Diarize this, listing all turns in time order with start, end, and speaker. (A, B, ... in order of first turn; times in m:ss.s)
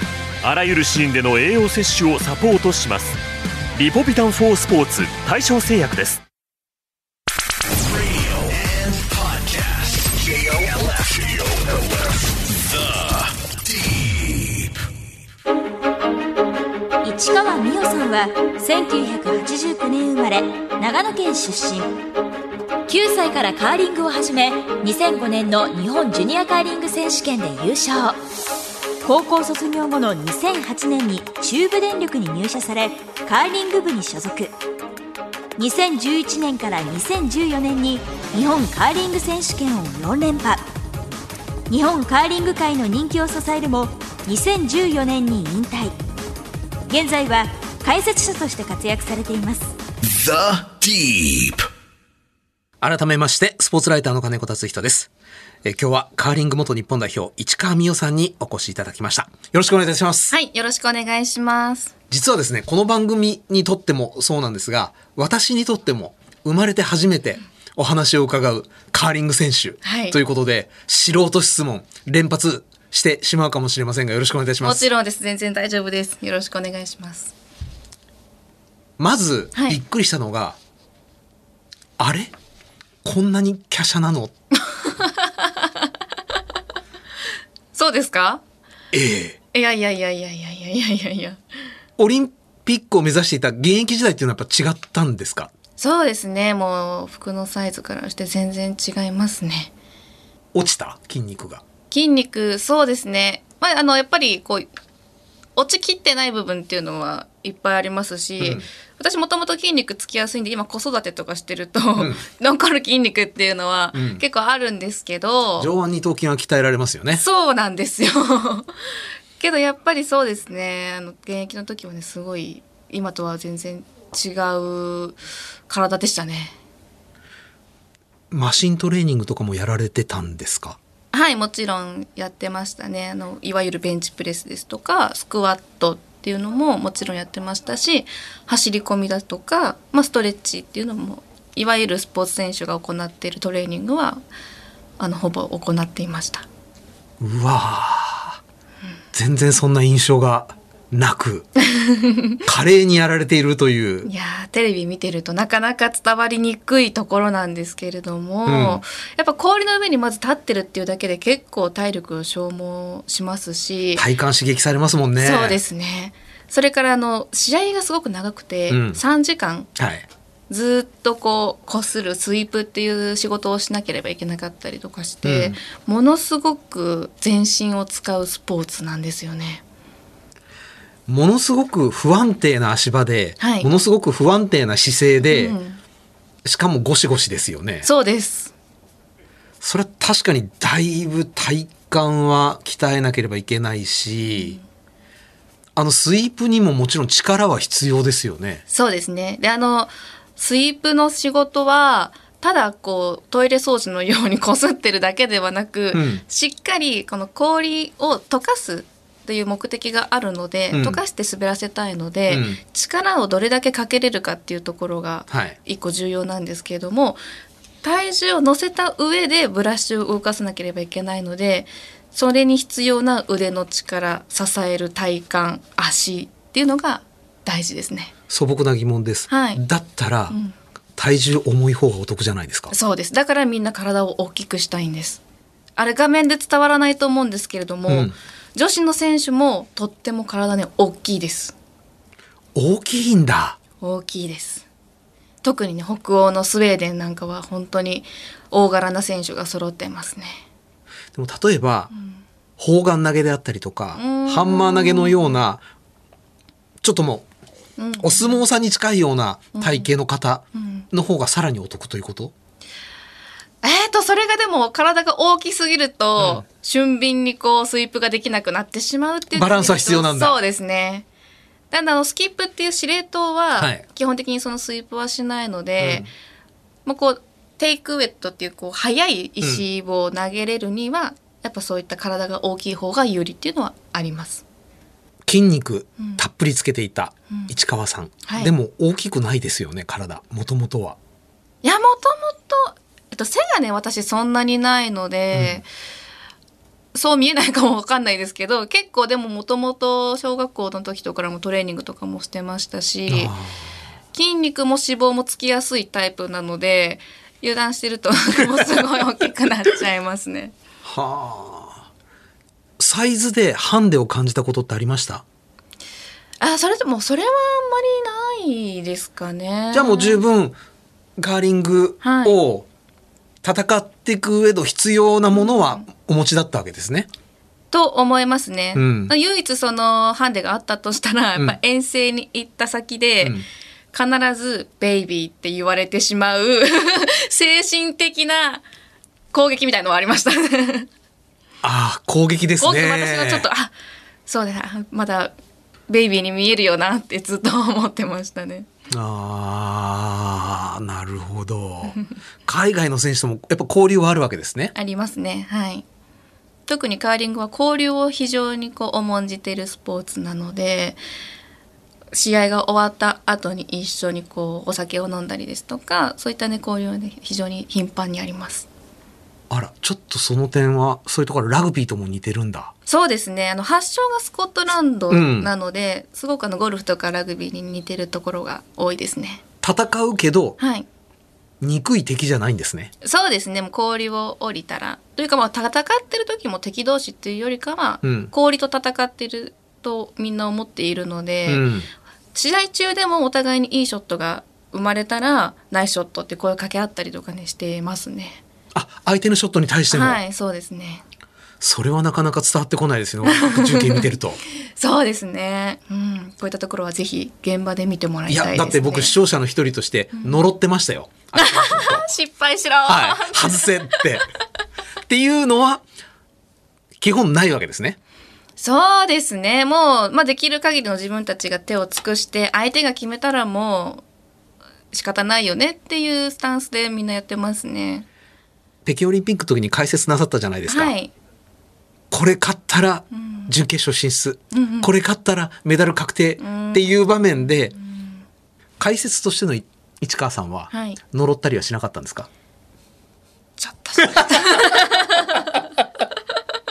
0:00.4-0:03.2 A
0:03.8-0:06.2 A
0:07.8-0:14.8 B
0:17.0-0:22.0 C
0:22.9-0:28.2 C
0:29.0-0:34.5 C
0:35.6-0:40.6 C
0:41.7-0:46.0 C
0:46.9-0:49.7 C
0:50.0-0:51.7 B
0:52.8-0:55.1 D
0:55.6-1:00.3 D
1:00.3-1:01.9 E
1:02.1-1:14.8 D
1:09.8-1:10.2 E
1:14.6-1:17.3 E
1:19.0-1:20.6 D
1:22.0-1:22.3 D
1:23.0-1:24.3 D
1:24.8-1:25.7 E
1:27.7-1:28.4 E
1:28.9-1:29.4 D
1:29.5-1:31.4 E
1:32.0-1:35.5 D
1:35.8-1:39.7 E
1:40.5-1:41.6 D
1:41.9-1:44.7 E
1:45.6-1:55.7 E
1:48.4-1:48.6 D
1:52.0-1:52.2 D
1:53.9-1:54.2 D
1:55.6-1:57.2 D
1:57.2-1:58.7 E
1:59.4-2:06.5 E
2:08.3-2:10.8 D
2:11.1-2:24.2 E
2:25.0-2:26.4 E
2:27.2-2:28.4 D
2:29.1-2:31.5 D
2:31.6-2:32.4 E
2:32.4-2:34.1 D
2:34.0-2:44.0 E
2:38.4-2:38.8 D
2:43.9-2:45.6 D
2:45.2-2:49.7 E
2:48.7-2:49.0 D
2:49.8-2:50.1 D
2:50.5-2:59.6 E
2:55.2-2:55.6 D
3:01.1-3:05.6 D
3:03.4-3:03.7 E
3:05.2-3:05.8 E
3:06.4-3:07.9 D
3:07.8-3:08.5 E
3:09.6-3:14.6 D
3:14.4-3:14.6 E
3:15.8-3:18.6 D
3:18.7-3:37.2 E
3:25.9-3:26.2 D
3:30.7-3:31.0 D
3:32.3-3:32.6 D
3:35.3-3:35.6 D
3:37.8-3:48.1 E
3:48.3-3:50.4 D
3:49.3-3:49.6 E
3:50.3-3:50.6 E
3:51.0-3:52.7 D
3:52.7-3:55.2 E
3:55.8-4:01.5 E
3:57.9-3:58.1 D
4:02.5-4:03.6 D
4:03.8-4:04.6 E
4:05.4-4:10.4 E
4:11.1-4:11.9 D
4:11.9-4:12.2 E
4:12.6-4:15.6 D
4:13.9-4:15.3 E
4:16.8-4:17.3 D
4:17.8-4:18.4 E
4:18.0-4:22.3 D
4:19.5-4:19.9 E
4:20.5-4:20.8 E
4:23.6-4:31.0 E
4:26.2-4:26.4 D
4:29.3-4:30.4 D
4:31.7-4:36.1 E
4:33.6-4:33.8 D
4:35.8-4:36.1 D
4:36.8-4:44.4 E
4:45.2-4:51.0 D
4:48.2-4:48.5 E
4:51.6-4:55.7 E
4:55.3-4:55.6 D
4:56.9-5:03.3 E
5:03.1-5:03.7 D
5:04.1-5:10.5 E
5:08.4-5:08.8 D
5:10.8-5:11.8 D
5:12.8-5:15.2 D
5:16.4-5:20.2 E
5:19.7-5:20.6 D
5:21.2-5:22.7 D
5:22.0-5:22.4 E
5:23.4-5:27.1 D
5:25.3-5:25.9 E
5:27.7-5:33.4 E
5:28.7-5:29.1 D
5:33.9-5:38.6 E
5:39.3-5:40.9 E
5:41.6-5:43.5 D
5:42.6-5:43.7 E
5:44.3-5:45.3 E
5:45.9-5:48.7 E
5:48.9-5:54.7 D
5:54.7-5:55.8 E
5:56.7-6:01.0 E
6:02.1-6:08.7 E
6:09.5-6:12.7 D
6:12.9-6:19.4 E
6:15.1-6:15.5 D
6:19.6-6:20.6 D
6:20.6-6:20.9 E
6:21.6-6:22.9 D
6:23.0-6:31.6 E
6:28.0-6:28.3 D
6:31.5-6:31.9 D
6:32.3-6:38.4 E
6:38.7-6:40.2 D
6:39.9-6:41.0 E
6:41.6-6:44.4 D
6:43.2-6:44.0 E
6:44.8-6:49.1 E
6:48.3-6:52.0 D
6:51.3-6:54.0 E
6:52.9-6:54.2 D
6:55.1-6:55.8 D
6:57.0-6:58.0 D
6:58.6-7:04.0 E
7:04.9-7:08.1 E
7:08.8-7:10.9 D
7:10.7-7:11.1 E
7:12.1-7:17.7 D
7:13.1-7:13.5 E
7:14.5-7:14.9 E
7:16.4-7:17.1 E
7:17.7-7:18.2 E
7:18.8-7:22.3 D
7:20.7-7:21.0 E
7:23.6-7:25.5 E
7:24.0-7:24.3 D